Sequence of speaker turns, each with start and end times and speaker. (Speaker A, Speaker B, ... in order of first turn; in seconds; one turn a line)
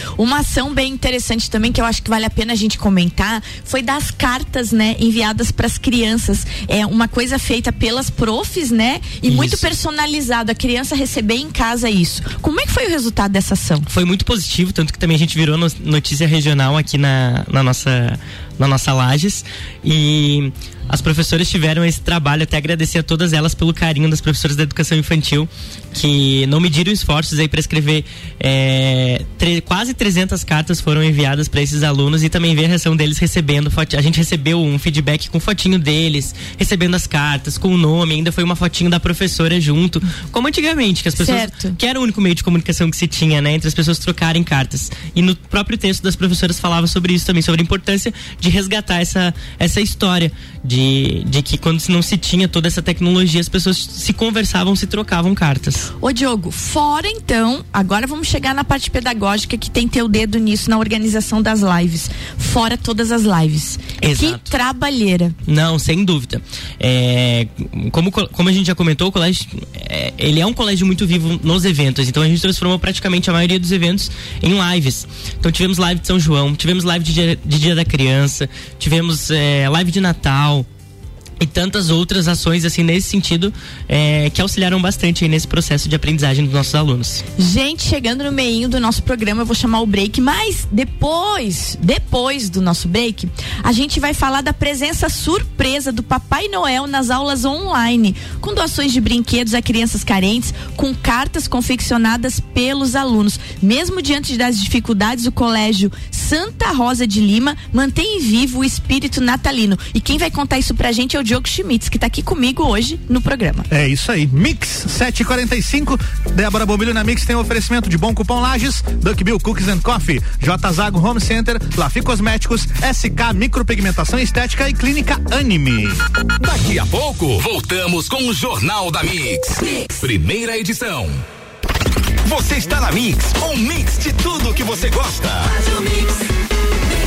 Speaker A: 0.2-13.9
Speaker B: 9.3-9.7
Speaker B: 13.9-55.9
Speaker A: 41.2-41.8
Speaker A: 56.0-65.3
Speaker B: 64.0-64.5
Speaker B: 65.5-80.7
Speaker B: 81.4-87.2
Speaker A: 87.4-113.7
Speaker C: 113.7-126.0
Speaker D: 126.4-131.2
Speaker D: 132.2-135.7